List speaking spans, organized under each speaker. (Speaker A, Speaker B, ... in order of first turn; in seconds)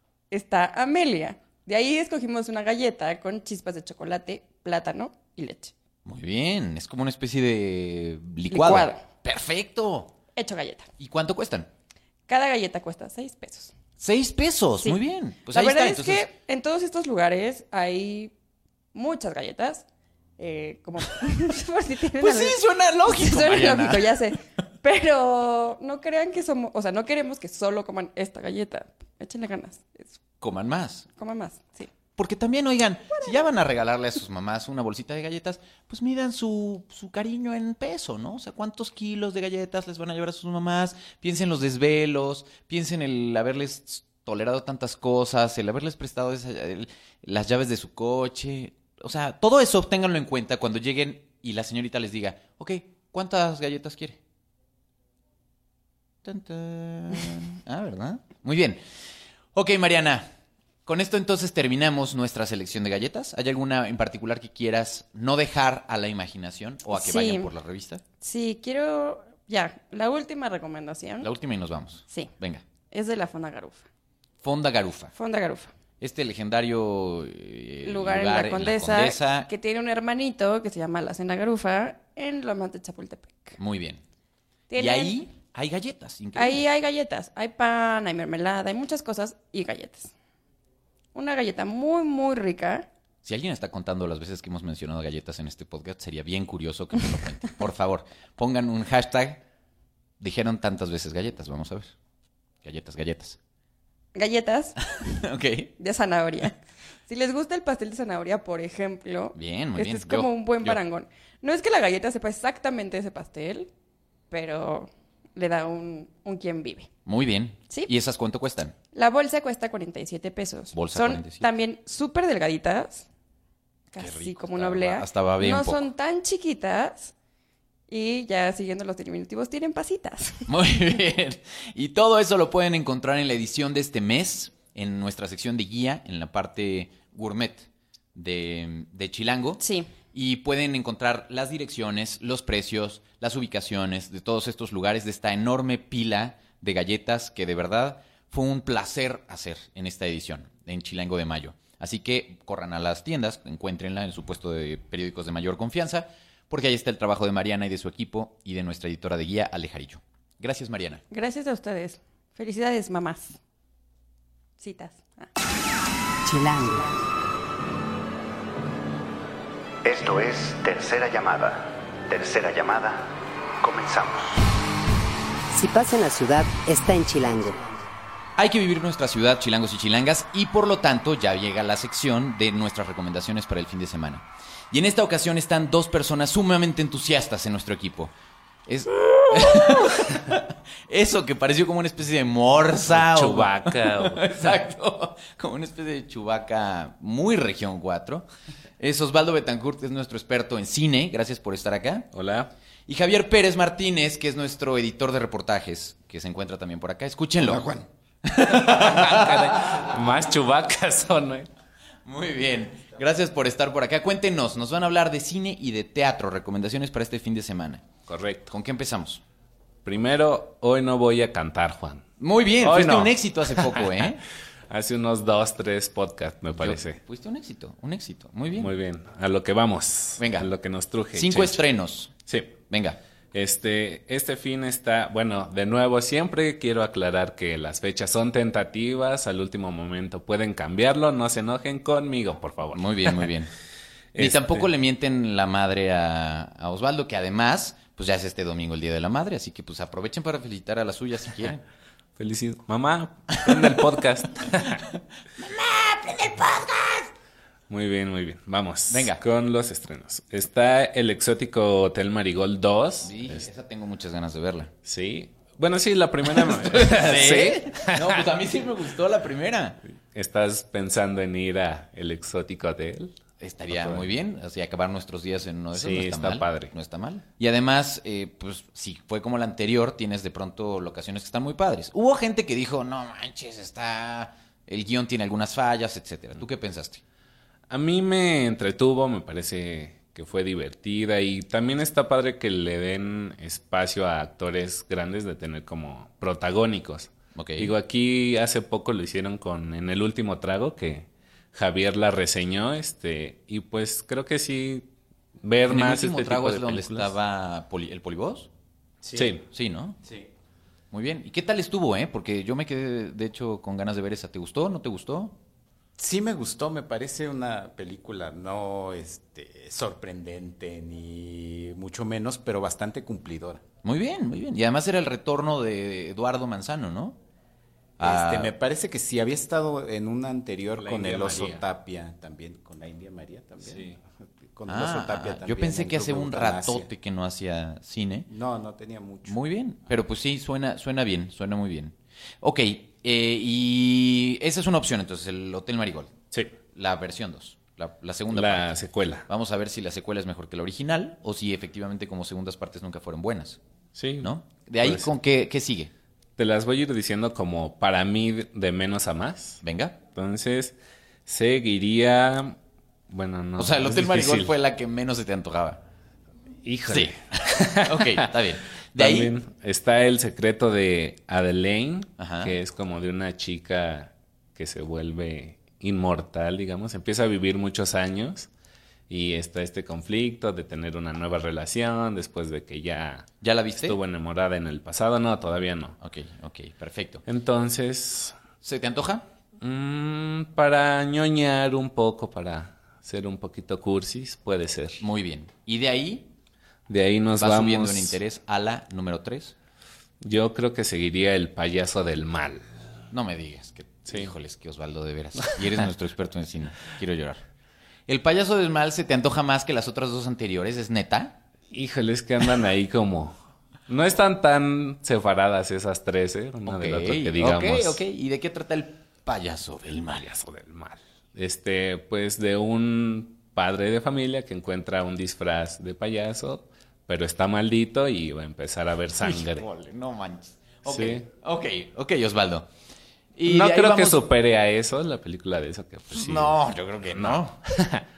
Speaker A: 0.3-5.7, 8.5-9.0, 10.3-10.9, 12.3-13.7, 14.8-18.3, 18.9-19.8, 20.4-30.2, 31.2-31.9, 66.9-67.5, 68.2-71.3, 72.9-73.9, 75.1-75.7, 77.8-83.6, 84.7-85.2, 86.3-90.1, 91.1-92.9, 104.1-104.8, 105.8-113.7, 114.3-116.9, 118.9-123.1, 123.9-127.1, 127.9-130.5, 139.6-139.9, 161.1-163.4, 164.6-165.3
Speaker B: 6.0-10.1, 11.0-11.7, 14.0-16.3, 22.2-24.2, 30.4-31.1, 32.2-54.2, 56.2-58.8, 59.5-60.3, 60.9-68.0, 71.2-72.6, 74.4-75.1, 76.0-79.5, 83.6-84.0, 84.7-86.6, 93.2-99.4, 100.2-101.9, 102.6-103.4, 105.0-105.7, 109.3-110.8, 117.0-118.8, 120.7-121.5, 124.0-125.8, 130.5-139.6, 140.1-161.0, 178.4-188.1, 188.7-198.3, 198.8-202.1, 202.9-209.9, 212.0-217.8, 218.5-219.2, 222.2-224.2, 226.5-228.7, 230.2-230.5, 231.1-232.1, 232.7-233.0, 242.7-243.5, 244.2-251.6, 253.5-253.8, 254.9-257.1, 258.9-259.2, 263.0-264.7, 266.2-269.8, 273.4-287.0, 297.3-297.7, 305.7-308.5, 309.5-310.0, 310.9-315.4, 323.8-327.2, 328.0-328.5, 334.7-338.3, 339.2-346.1, 346.7-353.6, 354.2-355.9, 359.6-360.0, 363.6-365.8, 366.9-369.3, 372.2-372.6, 383.4-384.0, 386.0-387.2, 388.6-389.3, 395.0-396.3, 397.4-399.5, 403.1-407.4, 408.1-411.4, 416.6-420.3, 429.2-432.7, 433.4-434.3, 436.1-437.6
Speaker C: 166.2-166.9, 175.5-177.7
Speaker D: 169.8-174.5
Speaker E: 192.9-194.6, 202.1-202.5, 208.4-211.5, 218.1-218.5, 219.8-222.1, 222.6-224.1, 224.7-227.0, 228.6-231.6, 232.3-232.6, 233.3-243.3, 244.1-244.7, 252.2-254.8, 257.7-263.5, 264.8-268.2, 270.1-274.1, 275.7-276.7, 287.7-304.9, 305.4-307.1, 309.1-309.4, 330.8-331.6, 333.6-334.0, 348.3-349.2, 353.9-355.1, 356.4-359.6, 360.1-362.6, 363.1-364.5, 366.6-368.3, 368.9-378.5, 379.1-386.0, 387.3-388.4, 389.6-395.0, 396.9-398.2, 400.2-402.6, 411.7-413.3, 413.9-418.0, 420.2-429.7, 430.9-431.3, 433.4-438.0
Speaker F: 309.0-309.3, 316.0-323.6, 328.0-336.9, 338.3-339.4